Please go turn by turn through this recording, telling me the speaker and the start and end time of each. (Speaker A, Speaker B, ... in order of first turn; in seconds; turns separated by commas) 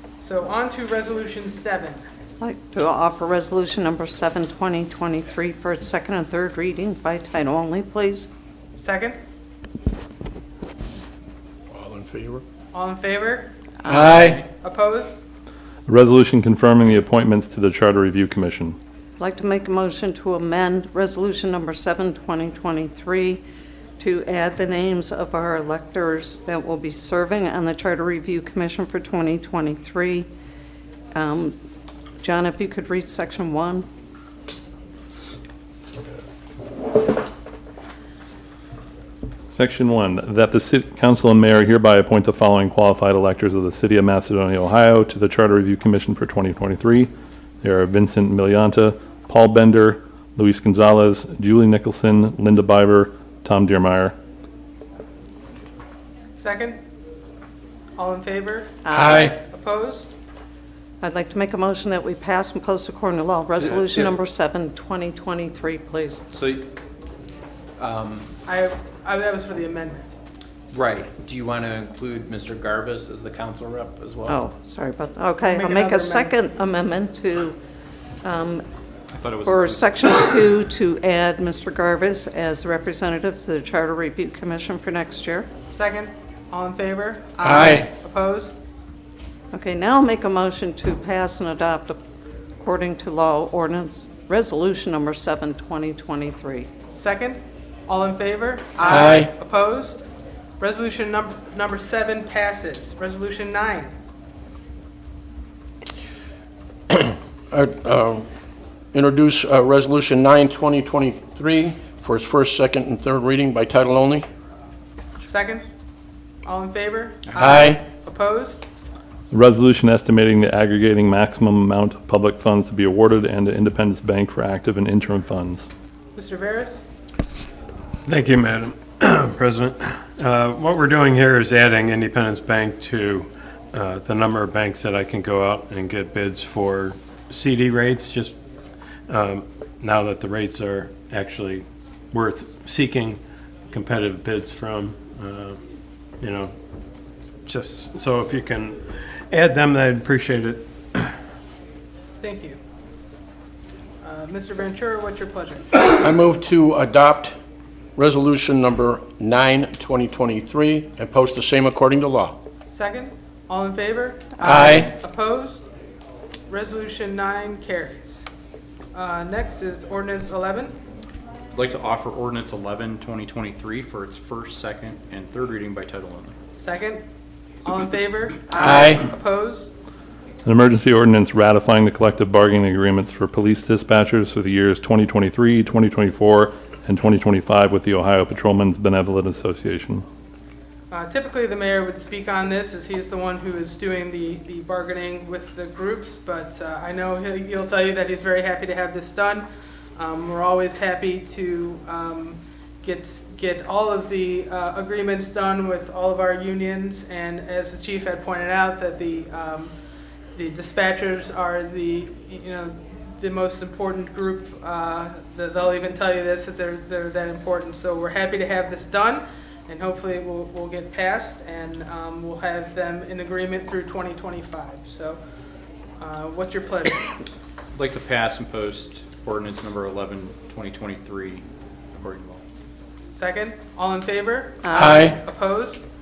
Speaker A: 0.2-2.0, Speaker B: 2.4-8.3, Speaker A: 8.8-9.2, Speaker C: 11.7-12.4, Speaker A: 12.7-13.5, Speaker B: 13.9-14.3, Speaker C: 13.9-14.4, Speaker A: 14.5-15.2, Speaker D: 15.9-18.8, Speaker B: 19.2-23.4, Speaker B: 24.0-30.3, Speaker B: 31.1-31.5, Speaker B: 32.2-33.9, Speaker D: 39.5-47.1, Speaker D: 47.6-54.1, Speaker A: 56.4-56.8, Speaker A: 58.0-60.1, Speaker B: 58.8-59.3, Speaker C: 59.0-59.3, Speaker B: 61.0-66.2, Speaker E: 66.3-66.7, Speaker E: 67.8-68.3, Speaker A: 68.5-70.1, Speaker E: 70.7-74.4, Speaker B: 74.3-77.6, Speaker A: 75.4-76.3, Speaker B: 78.2-78.6, Speaker F: 79.1-80.3, Speaker B: 79.4-85.5, Speaker A: 85.7-88.6, Speaker C: 87.4-87.8, Speaker B: 89.5-92.0, Speaker B: 92.6-96.7, Speaker A: 96.9-100.0, Speaker C: 98.8-99.3, Speaker A: 100.6-103.9, Speaker C: 106.9-108.3, Speaker C: 108.9-114.3, Speaker A: 115.2-115.6, Speaker A: 116.4-118.6, Speaker C: 117.3-117.8, Speaker D: 119.3-125.7, Speaker A: 126.1-126.8, Speaker G: 128.0-138.3, Speaker G: 139.1-143.2, Speaker G: 143.7-145.6, Speaker G: 146.2-146.5, Speaker G: 147.4-151.1, Speaker A: 152.2-152.6, Speaker A: 154.0-155.7, Speaker C: 155.9-157.3, Speaker C: 157.9-162.4, Speaker A: 162.7-165.6, Speaker C: 164.4-164.9, Speaker A: 166.5-168.2, Speaker A: 168.9-170.7, Speaker F: 171.5-176.3, Speaker A: 176.5-177.0, Speaker A: 177.6-179.7, Speaker C: 178.5-179.0, Speaker D: 180.4-190.0, Speaker A: 190.9-209.7, Speaker A: 210.3-225.2, Speaker A: 226.0-227.1, Speaker F: 227.7-231.4, Speaker F: 231.9-232.4, Speaker A: 233.1-235.8, Speaker B: 234.6-235.1, Speaker C: 234.8-235.2